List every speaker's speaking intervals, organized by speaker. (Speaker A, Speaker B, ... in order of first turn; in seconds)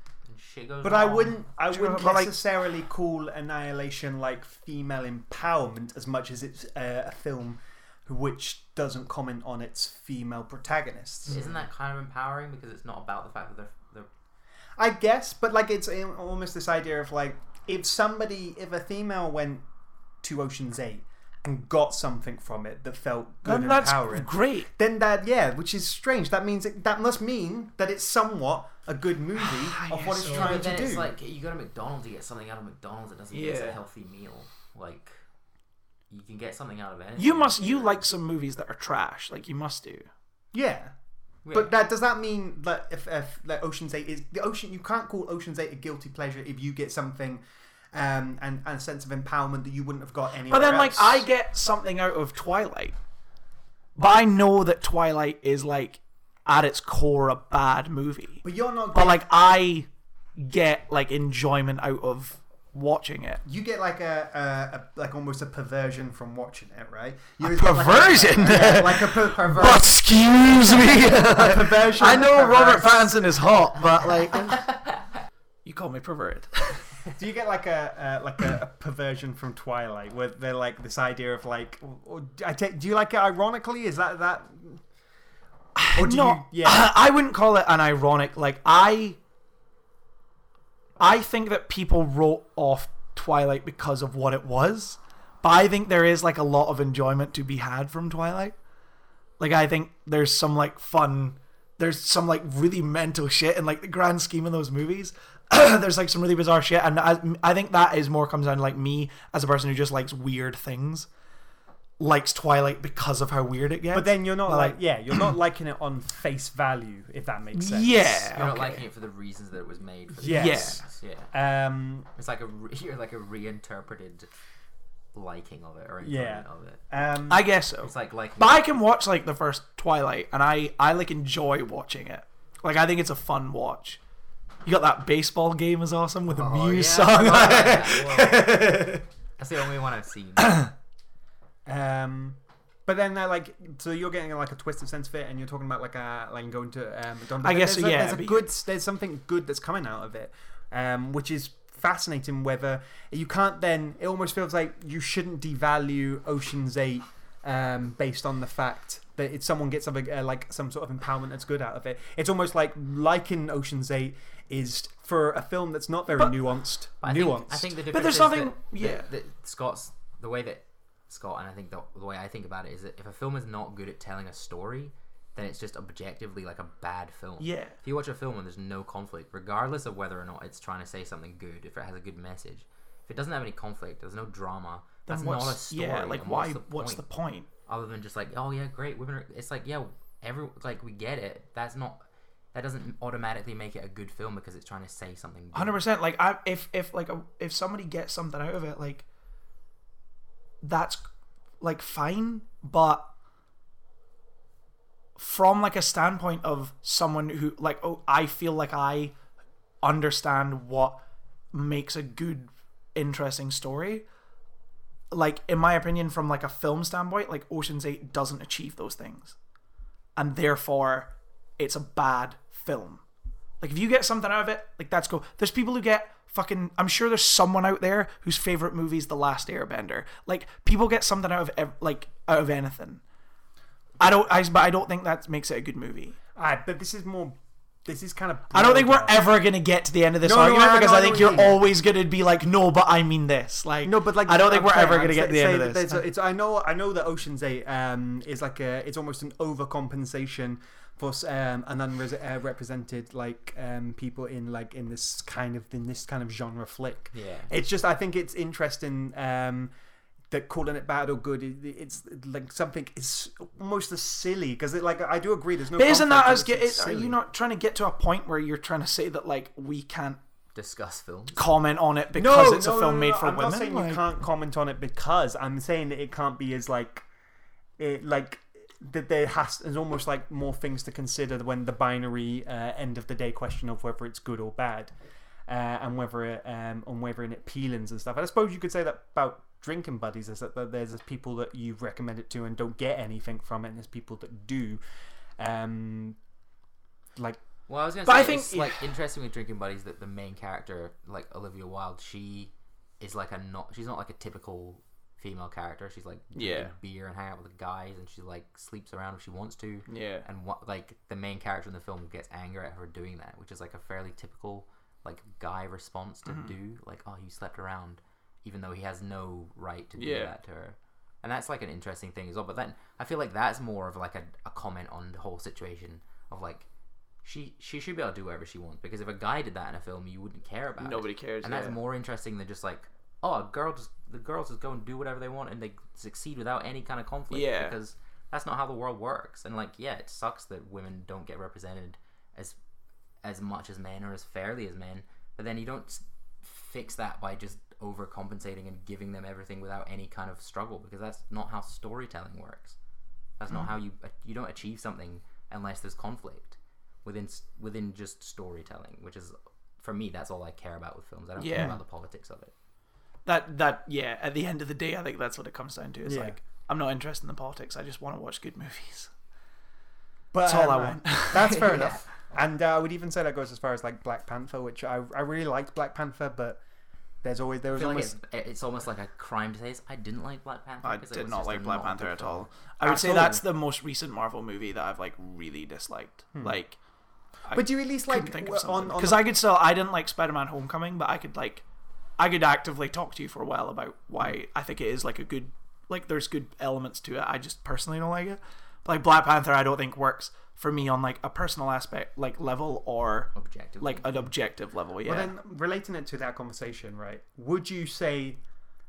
Speaker A: 0.2-1.4, 11.3-14.1, 30.3-35.3, 36.1-38.0, 41.4-41.7, 68.5-69.8, 118.3-121.3, 122.1-124.3, 125.1-126.8, 127.8-128.7, 136.4-138.8, 139.4-140.7, 167.0-187.1, 187.7-195.8, 257.1-257.5, 270.5-271.5, 297.7-326.7, 327.2-342.6, 343.2-352.8, 353.4-362.5, 371.3-372.1, 377.7-382.5, 403.3-404.1
Speaker B: 0.8-11.4, 14.8-19.6, 20.2-31.1, 40.5-40.9, 41.5-47.4, 47.9-51.3, 58.4-59.4, 63.4-69.9, 70.6-73.3, 77.1-84.8, 85.9-86.9, 113.9-118.8, 120.2-122.1, 126.0-127.5, 136.9-139.0, 141.7-167.7, 236.4-239.3, 240.2-241.6, 243.8-259.7, 260.3-267.2, 272.1-277.1, 277.8-284.9, 285.4-296.2, 361.6-361.8, 366.1-366.4, 370.3-376.6, 377.2-378.1, 382.8-383.4, 386.3-386.6, 387.5-389.3, 405.0-408.4
Speaker C: 1.7-2.3, 11.3-11.6, 23.4-24.7, 29.4-30.8, 33.3-33.8, 37.1-40.1, 50.5-53.0, 54.0-63.4, 67.4-74.6, 75.6-77.0, 85.7-89.2, 91.0-98.5, 99.4-111.1, 112.0-115.3, 117.5-118.5, 120.2-120.8, 127.3-134.0, 134.6-139.0, 140.4-140.7, 147.4-148.5, 167.9-169.1, 177.4-177.8, 185.1-187.5, 195.5-199.1, 200.6-201.1, 201.6-203.1, 205.2-209.2, 209.8-211.0, 211.5-214.1, 215.1-219.4, 220.2-223.0, 223.6-233.0, 234.0-236.2, 238.5-246.0, 265.8-270.2, 271.4-274.1, 298.1-298.8, 306.3-306.7, 309.9-310.2, 316.2-316.5, 320.0-320.3, 330.8-331.8, 337.3-337.8, 361.4-361.7, 363.2-369.1, 370.4-371.6, 380.8-386.8, 387.4-391.6, 392.2-405.3